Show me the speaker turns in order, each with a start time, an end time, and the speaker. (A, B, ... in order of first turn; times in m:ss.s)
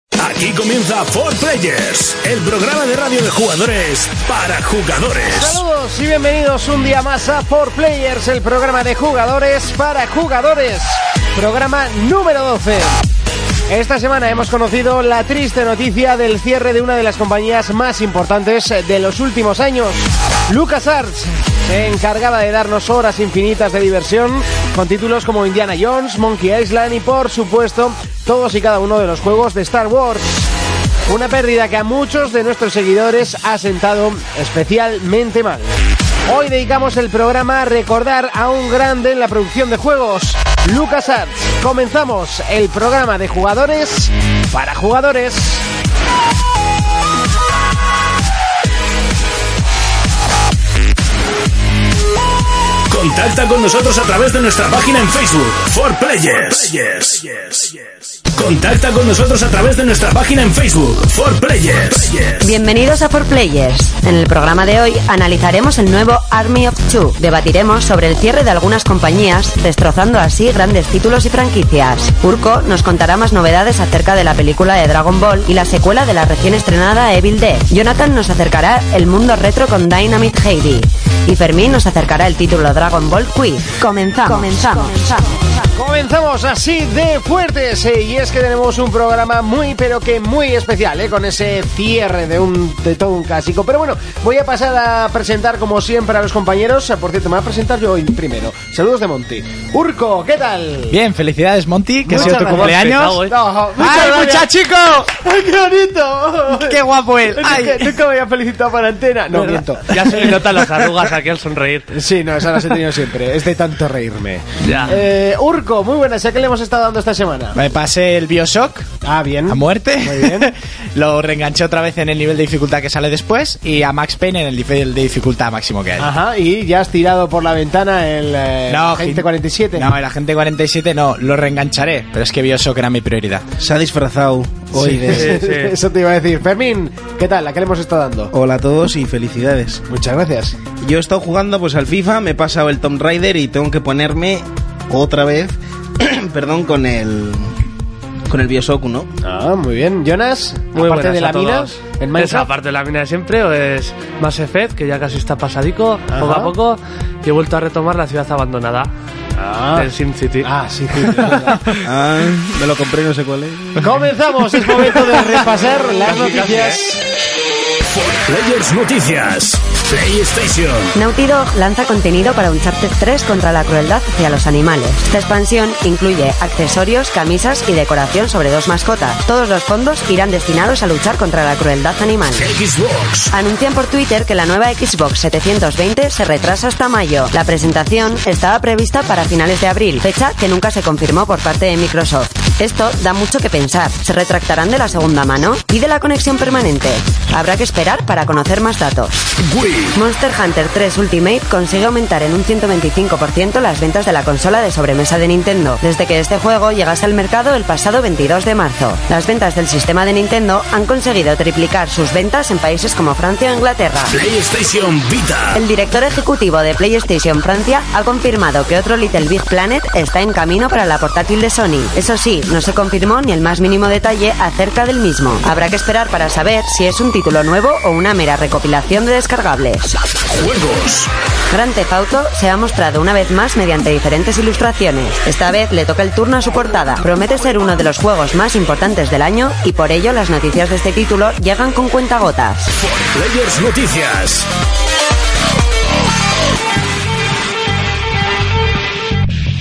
0:00.2-0:05.6 A
0:05.2-0:13.0 B
0:13.7-0:30.5 B
0:31.1-0:35.7 B
0:36.3-0:45.7 B
0:52.9-1:02.6 A
1:02.4-1:25.4 C
1:25.8-1:41.0 B
1:40.9-1:45.1 D
1:42.0-1:44.5 B
1:42.1-1:43.4 E
1:45.0-1:50.2 B
1:46.5-1:48.0 D
1:49.3-1:51.9 E
1:51.9-1:57.6 B
1:54.6-1:55.0 E
1:57.5-1:58.9 D
1:59.0-2:00.5 B
1:59.5-2:06.1 D
2:06.0-2:09.9 B
2:08.7-2:13.4 D
2:13.6-2:15.4 F
2:14.8-2:18.3 B
2:15.1-2:15.7 E
2:18.3-2:19.8 F
2:19.9-2:20.6 B
2:20.8-2:27.6 F
2:28.3-2:29.1 F
2:29.2-2:32.5 B
2:30.7-2:38.9 E
2:36.1-2:36.5 B
2:39.4-2:39.9 B
2:39.8-2:40.5 E
2:40.4-2:41.8 B
2:41.1-2:41.8 E
2:41.8-2:44.0 F
2:43.8-2:47.0 B
2:46.0-2:46.8 E
2:47.9-2:51.0 A
2:50.9-3:02.5 C
3:02.4-3:03.3 A
3:03.3-3:19.2 C
3:19.4-3:20.0 A
3:19.9-3:34.2 C
3:34.1-3:35.6 A
3:35.5-3:50.0 C
3:50.3-3:51.1 A
3:51.5-4:02.7 C
4:02.8-4:04.5 A